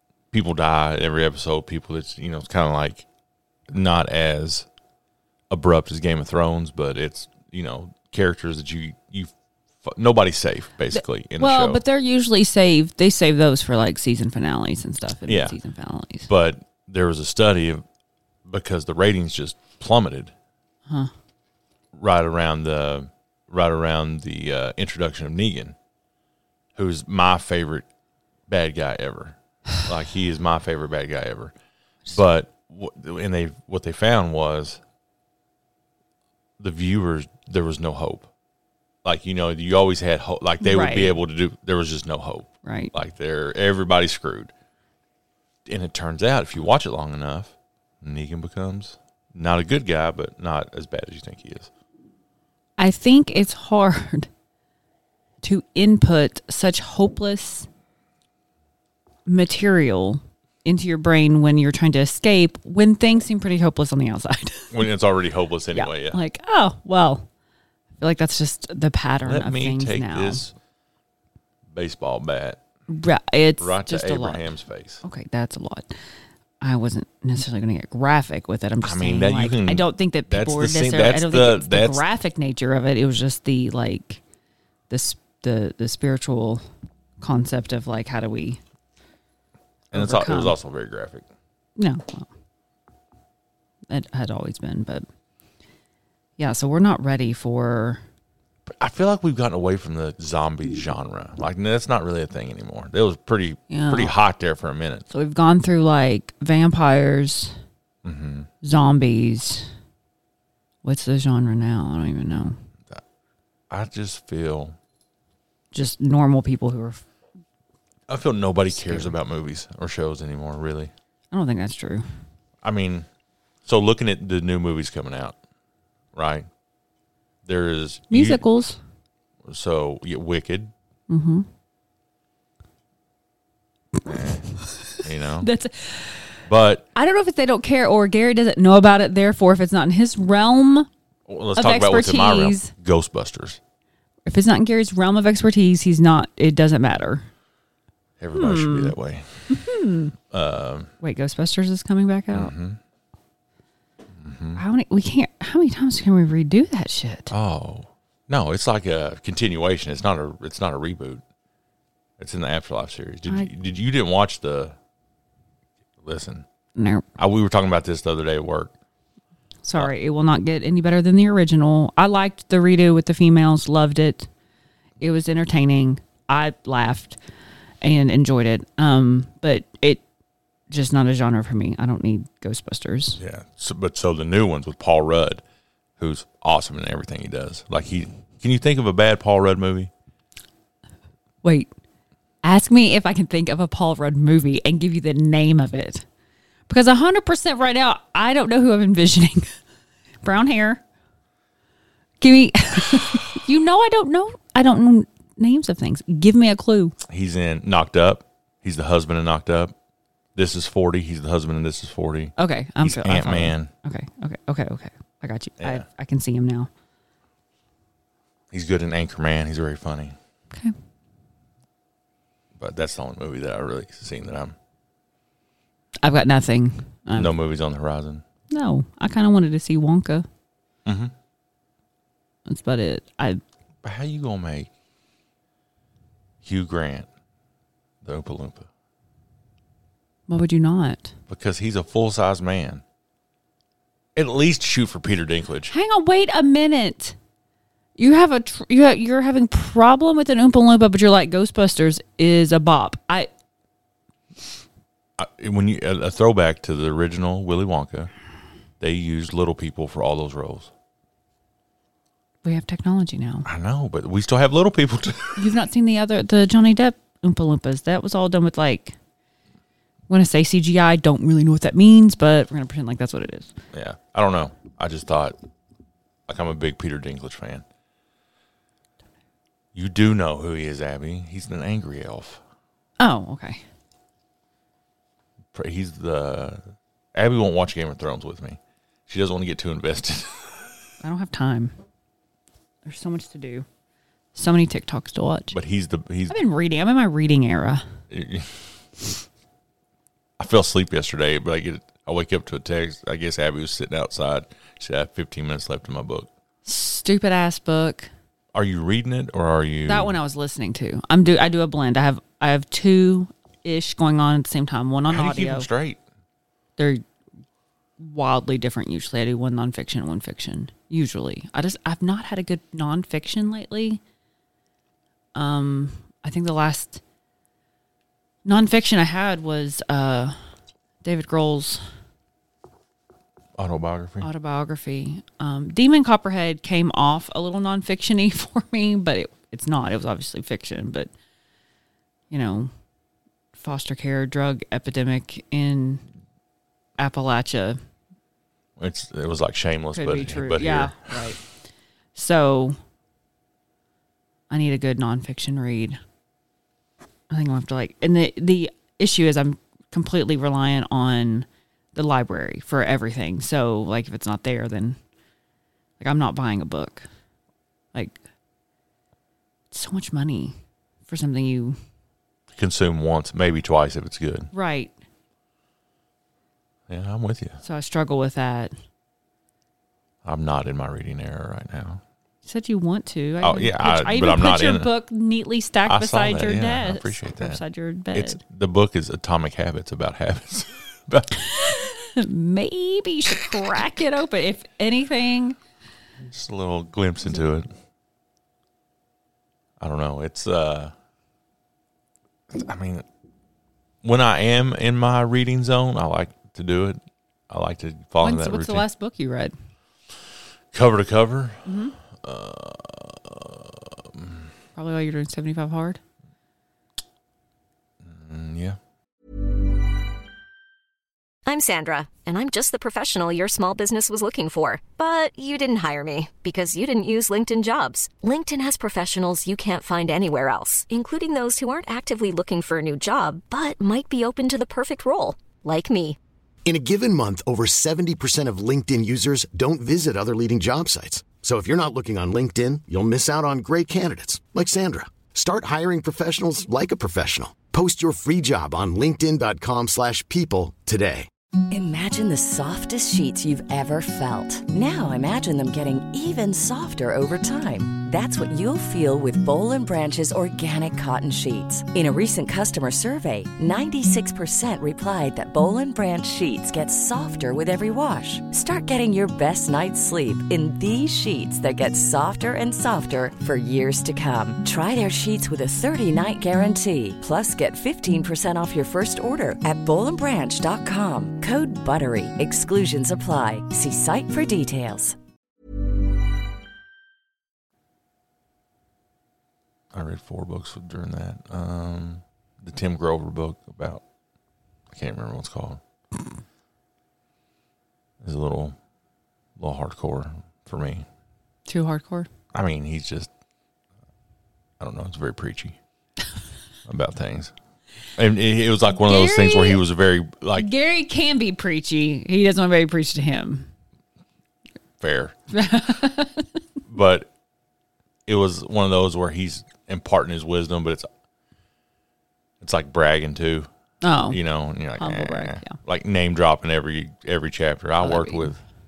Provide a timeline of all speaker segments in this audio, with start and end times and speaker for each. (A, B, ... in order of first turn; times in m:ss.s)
0:00.3-0:03.1 A
0:03.7-0:04.7 A
0:05.5-0:09.3 A
0:09.8-0:11.8 A
0:10.9-0:16.3 B
0:15.3-0:15.6 A
0:16.3-0:17.8 A
0:18.5-0:20.3 A
0:21.9-0:25.8 A
0:26.8-0:27.9 A
0:28.5-0:31.5 A
0:32.1-0:34.8 A
0:36.6-0:38.3 A
0:39.0-0:44.5 A
0:40.6-0:41.2 B
0:42.6-0:42.9 B
0:45.7-0:51.7 A
0:52.8-0:54.3 B
0:55.4-0:57.7 B
0:59.3-1:04.8 B
1:04.7-1:06.2 A
1:05.7-1:07.3 B
1:08.0-1:10.4 B
1:09.2-1:10.5 A
1:11.7-1:12.6 A
1:12.9-1:14.5 B
1:13.6-1:15.0 A
1:15.0-1:16.0 B
1:16.6-1:24.2 B
1:18.8-1:22.0 A
1:24.9-1:26.6 B
1:27.2-1:28.6 B
1:29.9-1:31.3 A
1:29.9-1:30.6 B
1:31.8-1:32.3 B
1:33.9-1:35.0 B
1:36.4-1:38.0 B
1:38.7-1:45.1 A
1:43.7-1:44.1 B
1:45.1-1:47.5 B
1:48.0-1:48.5 A
1:48.6-1:49.7 B
1:50.8-1:52.6 B
1:53.7-1:54.8 A
1:55.7-1:57.0 B
1:58.1-2:00.9 A
1:58.7-1:59.1 B
2:01.3-2:02.0 B
2:02.6-2:03.1 A
2:03.6-2:05.4 A
2:06.1-2:06.5 A
2:07.4-2:08.4 A
2:08.1-2:08.8 B
2:09.4-2:10.7 A
2:11.1-2:11.5 B
2:14.1-2:14.4 A
2:14.1-2:16.3 B
2:15.0-2:15.5 A
2:16.5-2:16.8 A
2:17.0-2:20.9 B
2:21.3-2:23.6 A
2:21.6-2:22.7 B
2:24.3-2:27.2 B
2:28.2-2:29.6 A
2:28.3-2:29.0 B
2:29.5-2:30.1 B
2:30.3-2:30.9 A
2:31.0-2:32.5 B
2:32.3-2:32.8 A
2:34.1-2:34.6 A
2:34.6-2:37.3 B
2:37.3-2:41.2 A
2:42.2-2:44.8 A
2:46.0-2:46.5 A
2:46.8-2:47.1 B
2:47.2-2:48.7 A
2:49.6-2:54.3 B
2:55.0-2:57.2 B
2:57.8-3:00.0 B
3:00.7-3:03.2 B
3:03.2-3:05.4 A
3:06.0-3:09.9 A
3:11.4-3:11.7 B
3:12.4-3:16.0 B
3:16.7-3:19.5 B
3:20.2-3:20.8 B
3:22.2-3:27.0 B
3:27.1-3:29.8 A
3:30.4-3:33.7 A
3:32.4-3:36.7 B
3:35.6-3:35.8 A
3:38.5-3:40.2 A
3:42.6-3:44.6 A
3:46.0-3:47.4 B
3:47.2-3:48.2 A
3:48.5-3:50.3 B
3:50.8-3:51.1 A
3:52.5-3:53.4 B
3:53.8-3:54.7 A
3:56.4-3:57.1 A
3:58.0-3:58.7 A
4:00.3-4:01.1 B
4:01.3-4:02.8 A
4:04.2-4:05.7 A
4:05.7-4:07.2 B
4:08.0-4:13.3 B
4:15.2-4:18.1 A
4:18.8-4:20.7 A
4:22.4-4:23.5 B
4:23.5-4:25.5 A
4:25.4-4:29.0 B
4:30.1-4:33.5 B
4:33.7-4:35.4 A
4:36.3-4:37.6 A
4:39.7-4:42.4 A
4:43.0-4:43.6 B
4:45.5-4:46.6 A
4:47.1-4:50.8 A
4:51.0-4:51.8 B
4:52.8-4:53.7 B
4:54.4-4:55.6 B
4:55.5-4:56.4 A
4:56.3-4:57.8 B
4:58.1-4:58.8 A
5:00.4-5:06.3 A
5:06.6-5:08.1 B
5:08.5-5:10.2 A
5:09.9-5:15.7 B
5:15.1-5:16.0 A
5:16.8-5:17.0 B
5:18.0-5:24.0 B
5:25.4-5:27.0 B
5:28.4-5:30.4 B
5:31.0-5:31.8 B
5:33.6-5:34.3 A
5:34.2-5:41.1 B
5:42.3-5:42.7 B
5:43.6-5:46.0 B
5:47.0-5:47.8 B
5:48.8-5:51.3 A
5:49.9-5:51.4 B
5:52.2-5:52.8 B
5:54.5-5:56.0 B
5:57.3-6:05.0 B
6:06.0-6:07.1 B
6:07.9-6:08.2 B
6:09.7-6:10.5 B
6:11.1-6:11.8 B
6:12.6-6:14.5 A
6:14.5-6:14.9 B
6:16.9-6:17.6 A
6:17.6-6:18.7 B
6:20.2-6:22.0 A
6:22.4-6:28.4 B
6:23.4-6:24.9 A
6:25.9-6:27.6 A
6:28.1-6:31.4 A
6:31.4-6:35.6 B
6:36.3-6:37.7 A
6:39.8-6:40.9 A
6:42.5-6:43.0 A
6:44.0-6:48.8 A
6:48.2-6:49.5 B
6:50.7-6:51.7 A
6:51.7-6:52.0 B
6:52.2-6:54.5 A
6:54.8-6:56.0 B
6:58.0-6:58.8 A
7:01.5-7:16.2 C
7:16.6-7:31.3 D
7:31.7-8:05.2 E
8:09.9-8:14.0 A
8:14.9-8:15.8 A
8:18.2-8:18.8 A
8:19.6-8:21.1 A
8:21.7-8:22.3 B
8:22.5-8:23.3 A
8:24.8-8:25.8 A
8:26.9-8:27.5 A
8:28.2-8:30.7 A
8:29.0-8:29.8 B
8:30.6-8:33.7 B
8:35.0-8:35.4 A
8:35.5-8:36.5 B
8:36.9-8:37.3 A
8:38.3-8:41.1 A
8:42.6-8:43.7 A
8:44.0-8:44.4 B
8:44.3-8:48.6 A
8:45.0-8:45.8 B
8:48.0-8:48.6 B